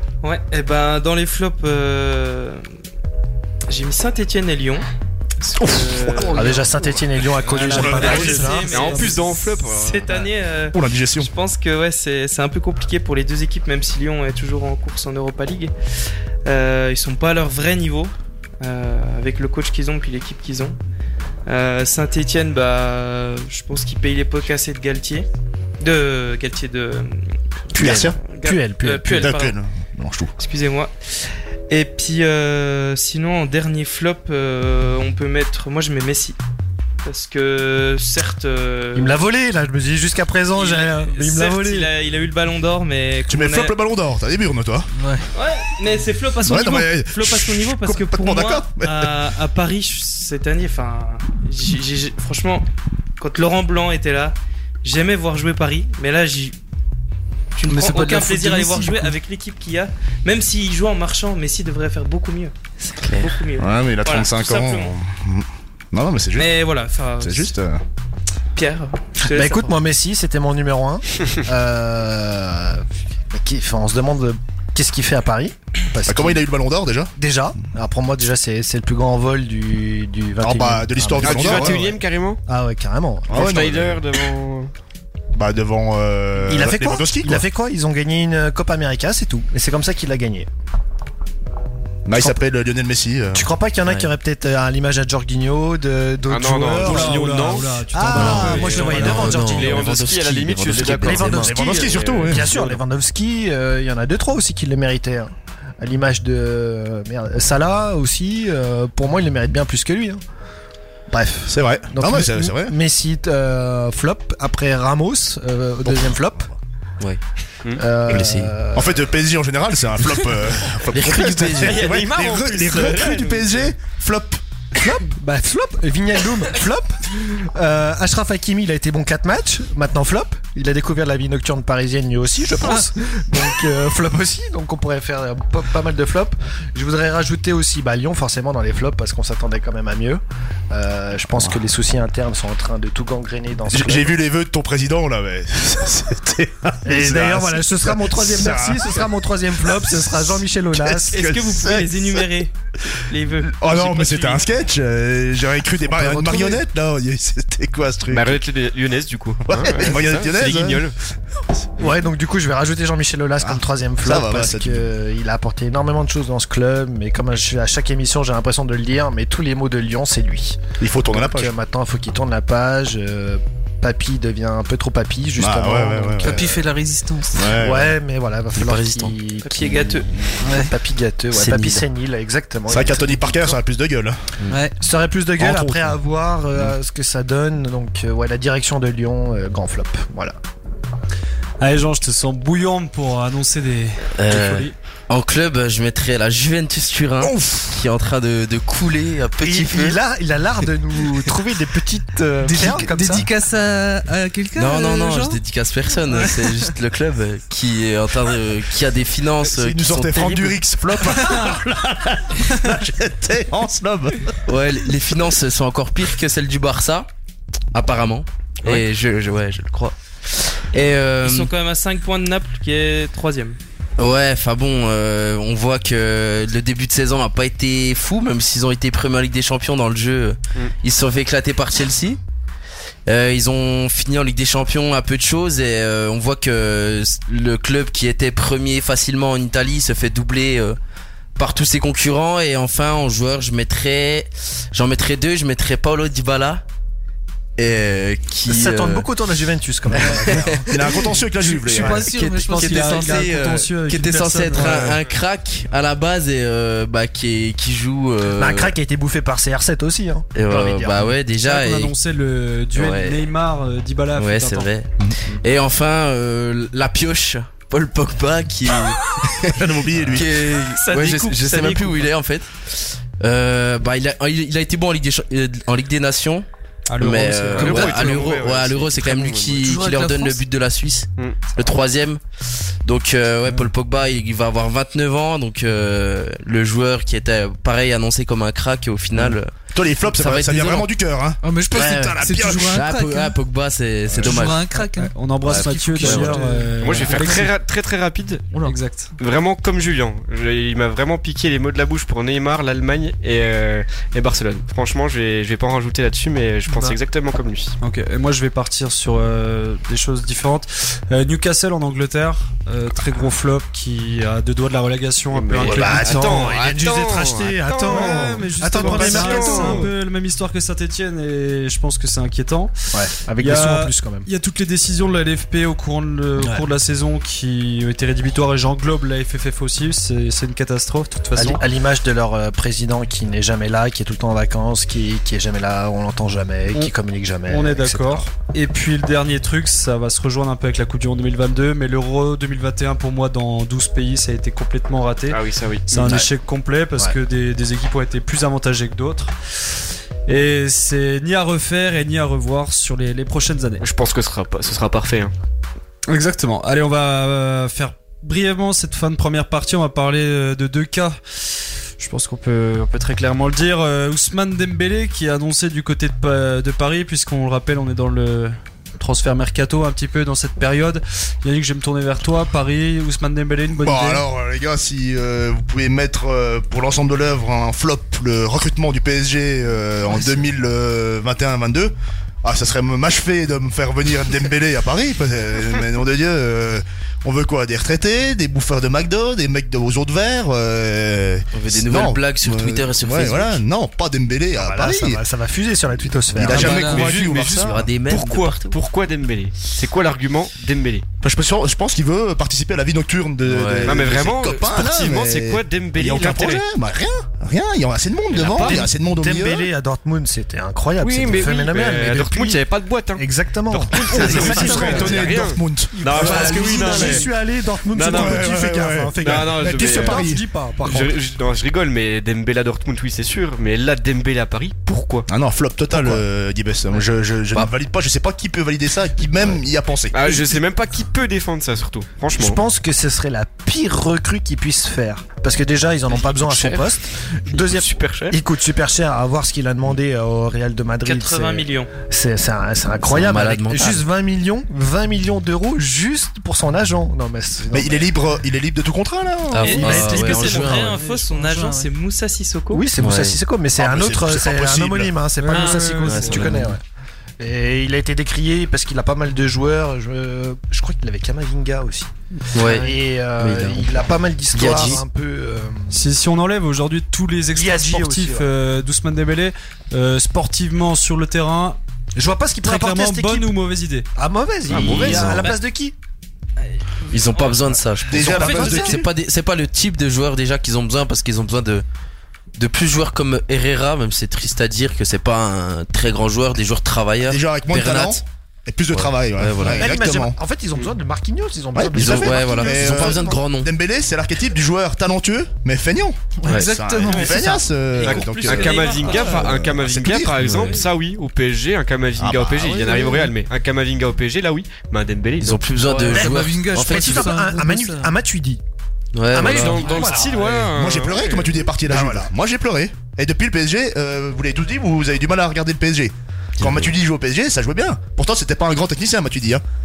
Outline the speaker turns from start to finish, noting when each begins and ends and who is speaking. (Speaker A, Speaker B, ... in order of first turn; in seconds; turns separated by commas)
Speaker A: 0.2-2.6, Speaker A: 3.7-4.8, Speaker B: 5.6-6.3, Speaker A: 5.6-6.8, Speaker C: 6.3-9.0, Speaker D: 7.5-9.2, Speaker A: 7.5-15.7, Speaker B: 7.7-8.2, Speaker E: 7.7-10.3, Speaker B: 10.7-11.3, Speaker A: 16.4-20.8, Speaker A: 21.4-25.3, Speaker A: 25.8-27.3, Speaker B: 27.7-28.2, Speaker C: 27.7-29.3, Speaker A: 27.8-29.6, Speaker B: 29.1-30.3, Speaker A: 30.4-30.9, Speaker A: 31.7-36.4, Speaker A: 37.0-39.2, Speaker C: 38.9-41.9, Speaker A: 40.5-43.7, Speaker B: 43.3-44.9, Speaker A: 45.3-52.7, Speaker B: 46.4-49.1, Speaker A: 53.2-56.5, Speaker A: 57.5-62.5, Speaker F: 57.6-59.1, Speaker G: 62.8-63.4, Speaker A: 63.2-64.9, Speaker B: 63.6-66.5, Speaker A: 66.3-67.5, Speaker B: 67.2-67.8, Speaker A: 68.5-69.8, Speaker C: 69.2-76.4, Speaker B: 76.0-77.1, Speaker C: 77.2-83.7, Speaker B: 80.4-81.9, Speaker E: 81.2-82.4, Speaker B: 83.3-84.0, Speaker E: 83.3-84.7, Speaker B: 85.3-87.5, Speaker C: 86.5-90.5, Speaker B: 92.0-93.5, Speaker C: 93.3-99.9, Speaker G: 93.8-94.1, Speaker E: 96.3-102.8, Speaker D: 96.8-99.3, Speaker G: 98.1-101.5, Speaker C: 100.8-110.2, Speaker B: 101.4-102.5, Speaker C: 111.1-116.5, Speaker B: 111.5-112.7, Speaker B: 115.8-116.3, Speaker C: 117.8-119.0, Speaker G: 118.1-118.5, Speaker B: 118.7-124.4, Speaker G: 120.9-121.9, Speaker E: 121.6-123.7, Speaker A: 122.5-122.8, Speaker C: 124.8-144.1, Speaker B: 143.7-152.2, Speaker C: 146.8-151.1, Speaker A: 151.1-152.5, Speaker A: 153.1-154.4, Speaker B: 153.4-158.4, Speaker C: 155.8-156.6, Speaker E: 158.1-160.9, Speaker B: 159.5-160.9, Speaker C: 161.8-176.6, Speaker B: 163.4-164.9, Speaker B: 170.8-171.5, Speaker B: 175.4-176.6, Speaker F: 176.2-177.6, Speaker B: 177.3-177.9, Speaker C: 177.5-183.6, Speaker G: 178.5-179.2, Speaker A: 179.4-180.2, Speaker F: 180.4-180.7, Speaker G: 181.3-181.8, Speaker B: 182.7-184.2, Speaker F: 184.5-184.7, Speaker C: 184.8-190.4, Speaker B: 185.4-186.0, Speaker D: 191.6-194.7, Speaker G: 194.2-200.0, Speaker C: 199.4-203.3, Speaker F: 202.4-205.4, Speaker G: 204.5-210.6, Speaker F: 206.1-206.7, Speaker B: 209.4-214.4, Speaker G: 214.4-217.1, Speaker G: 217.7-221.5, Speaker A: 221.2-223.6, Speaker G: 224.0-232.2, Speaker G: 233.1-240.8, Speaker G: 241.4-246.6, Speaker G: 247.6-249.1, Speaker C: 248.5-251.2, Speaker G: 249.9-250.9, Speaker B: 250.6-252.1, Speaker F: 251.7-253.3, Speaker C: 251.7-252.0, Speaker G: 251.8-258.7, Speaker D: 252.3-255.0, Speaker C: 258.3-261.1, Speaker G: 260.3-261.9, Speaker D: 261.4-264.7, Speaker G: 262.8-263.2, Speaker G: 264.1-282.2, Speaker B: 269.5-270.4, Speaker A: 270.7-272.1, Speaker D: 276.9-278.2, Speaker E: 277.5-279.7, Speaker F: 279.6-280.4, Speaker G: 282.8-290.9, Speaker B: 289.1-292.9, Speaker F: 291.4-293.4, Speaker G: 292.6-294.6, Speaker B: 294.1-294.3, Speaker F: 294.2-297.4, Speaker D: 294.7-297.5, Speaker G: 295.4-296.4, Speaker E: 296.8-298.6, Speaker D: 298.6-299.1, Speaker E: 299.2-307.7, Speaker F: 306.7-306.9, Speaker D: 307.8-316.6, Speaker E: 315.3-319.9, Speaker C: 315.6-319.9, Speaker D: 317.8-322.7, Speaker B: 318.8-319.2, Speaker C: 322.9-324.3, Speaker D: 323.4-331.6, Speaker C: 326.4-326.6, Speaker C: 331.4-338.3, Speaker D: 337.5-349.3, Speaker E: 345.3-346.2, Speaker C: 346.0-346.3, Speaker D: 350.3-353.8, Speaker E: 353.8-355.3, Speaker D: 356.1-361.2, Speaker D: 362.0-374.2, Speaker B: 373.8-395.2, Speaker G: 391.5-393.6, Speaker C: 394.6-396.9, Speaker B: 396.3-397.9, Speaker G: 396.4-398.8, Speaker F: 396.5-397.3, Speaker E: 396.9-401.1, Speaker B: 401.2-409.7, Speaker G: 403.4-404.1, Speaker E: 403.8-406.6, Speaker E: 408.3-408.9, Speaker C: 408.4-412.6, Speaker E: 411.0-417.3, Speaker C: 413.2-421.2, Speaker B: 413.9-417.2, Speaker E: 417.9-418.5, Speaker B: 417.9-420.4, Speaker E: 419.2-420.2, Speaker E: 420.8-425.3, Speaker B: 425.3-430.4, Speaker E: 430.1-432.6, Speaker C: 432.3-448.1, Speaker E: 436.1-438.4, Speaker A: 441.0-441.9, Speaker G: 443.0-444.0, Speaker B: 447.7-450.2, Speaker G: 449.5-451.0, Speaker A: 449.6-452.9, Speaker C: 449.8-450.2, Speaker F: 451.0-451.9, Speaker C: 452.7-456.8, Speaker G: 452.9-453.4, Speaker B: 453.8-455.1, Speaker D: 455.4-456.6, Speaker G: 456.0-456.8, Speaker C: 457.4-466.0, Speaker G: 462.5-465.0, Speaker D: 465.9-471.8, Speaker C: 467.5-468.5, Speaker C: 472.1-473.5, Speaker D: 472.6-474.1, Speaker C: 474.1-475.9, Speaker E: 474.7-475.4, Speaker G: 474.8-475.5, Speaker G: 477.1-481.8, Speaker A: 477.1-477.7, Speaker B: 478.0-479.1, Speaker C: 478.2-479.0, Speaker A: 478.4-478.8, Speaker G: 482.6-488.2, Speaker B: 487.2-490.4, Speaker G: 488.9-490.0, Speaker C: 489.8-493.4, Speaker B: 491.7-500.7, Speaker G: 491.9-493.7, Speaker F: 496.4-497.7, Speaker G: 496.5-496.7, Speaker A: 497.0-499.5, Speaker E: 498.0-505.7, Speaker B: 502.2-503.1, Speaker G: 505.4-507.4, Speaker F: 506.0-508.1, Speaker C: 506.1-508.6, Speaker G: 509.1-510.1, Speaker C: 509.3-510.6, Speaker E: 509.3-511.7, Speaker B: 510.7-519.6, Speaker C: 511.9-512.3, Speaker G: 516.6-516.9